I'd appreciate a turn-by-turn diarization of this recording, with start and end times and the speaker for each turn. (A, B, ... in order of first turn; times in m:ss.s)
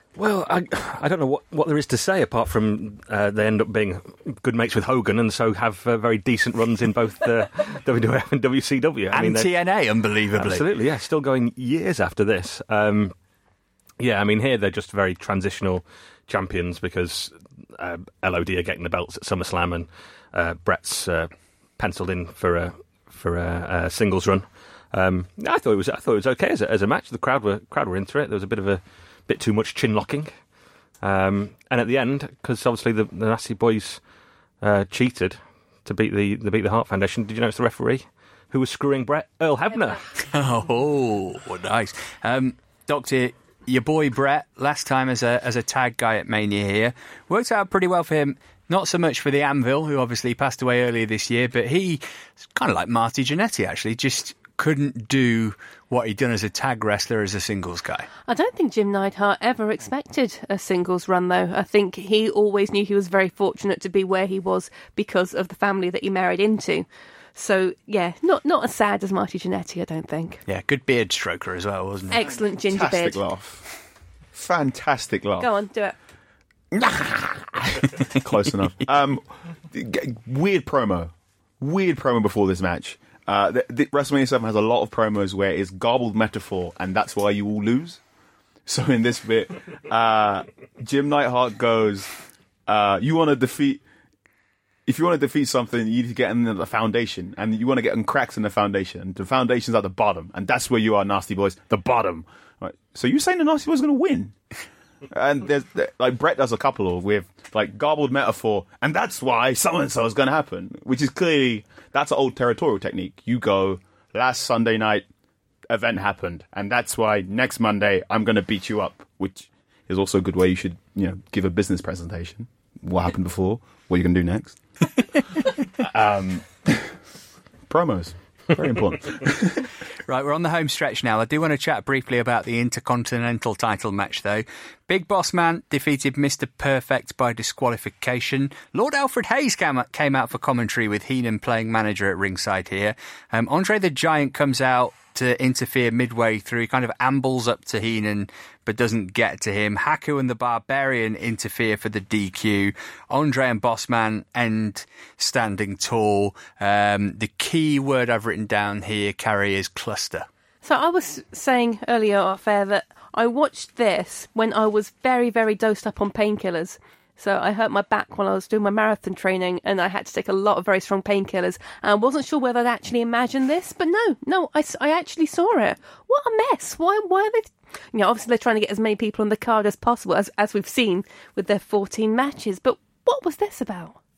0:00.2-0:09.5 A
0:09.1-0:10.6 B
0:10.3-0:13.1 A
0:14.0-0:30.3 A
0:31.0-0:34.0 A
0:34.6-0:40.0 A
0:40.2-0:58.1 B
0:58.3-1:10.4 C
1:10.5-1:12.3 B
1:12.1-1:13.2 C
1:12.2-1:13.6 D
1:14.3-1:15.5 D
1:15.4-1:16.0 C
1:16.7-1:28.0 D
1:28.7-1:32.1 D
1:32.7-1:33.8 D
1:34.8-1:44.4 D
1:45.1-1:55.0 D
1:55.7-2:04.6 D
2:05.8-2:07.0 D
2:07.7-2:09.7 D
2:10.0-2:40.3 B
2:40.6-3:04.0 C